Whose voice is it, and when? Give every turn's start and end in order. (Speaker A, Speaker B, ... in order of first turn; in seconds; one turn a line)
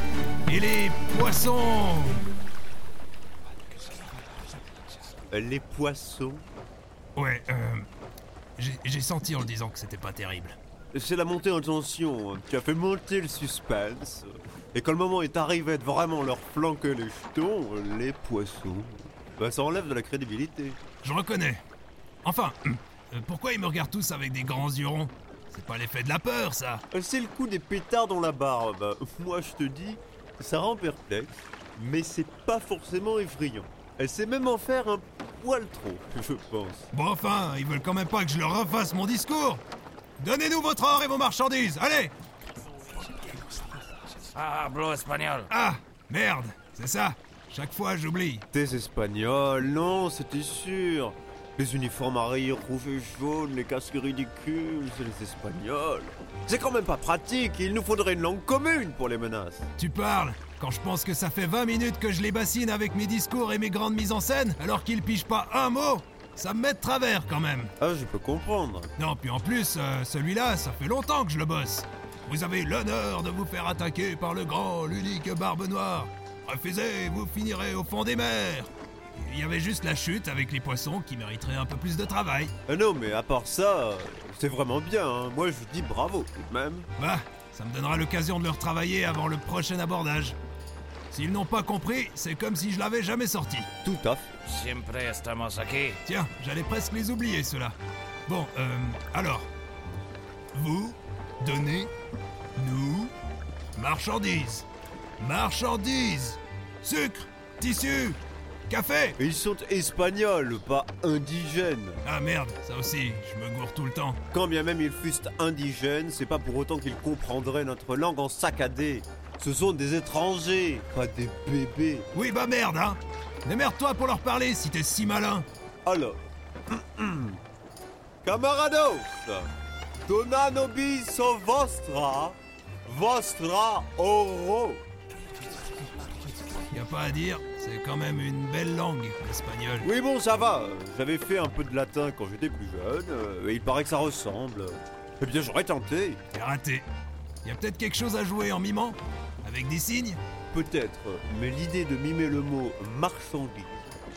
Speaker A: 0.5-2.3
Speaker B: 5.3-6.4
Speaker A: 7.2-7.8
Speaker A: 8.6-10.6
Speaker B: 10.9-20.8
Speaker A: 21.0-21.6
Speaker A: 22.2-26.8
Speaker B: 26.9-36.9
Speaker A: 36.9-39.6
Speaker A: 40.2-42.1
Speaker C: 44.3-45.5
Speaker A: 45.5-48.5
Speaker B: 48.5-59.7
Speaker A: 59.8-67.7
Speaker B: 67.8-68.9
Speaker A: 69.0-82.5
Speaker B: 82.7-86.9
Speaker A: 87.0-90.3
Speaker A: 91.1-93.7
Speaker B: 93.8-94.3
Speaker C: 94.5-96.0
Speaker A: 96.0-97.8
Speaker A: 98.3-99.5
Speaker A: 100.5-101.9
Speaker A: 102.5-103.1
Speaker A: 103.7-104.7
Speaker A: 105.2-109.2
Speaker B: 109.2-112.0
Speaker A: 112.0-114.2
Speaker B: 114.3-122.1
Speaker A: 122.1-125.5
Speaker B: 125.8-127.4
Speaker B: 128.2-129.5
Speaker B: 130.0-134.8
Speaker A: 136.7-139.9
Speaker B: 139.8-146.2
Speaker A: 146.3-146.8
Speaker A: 147.4-150.2
Speaker B: 150.5-153.9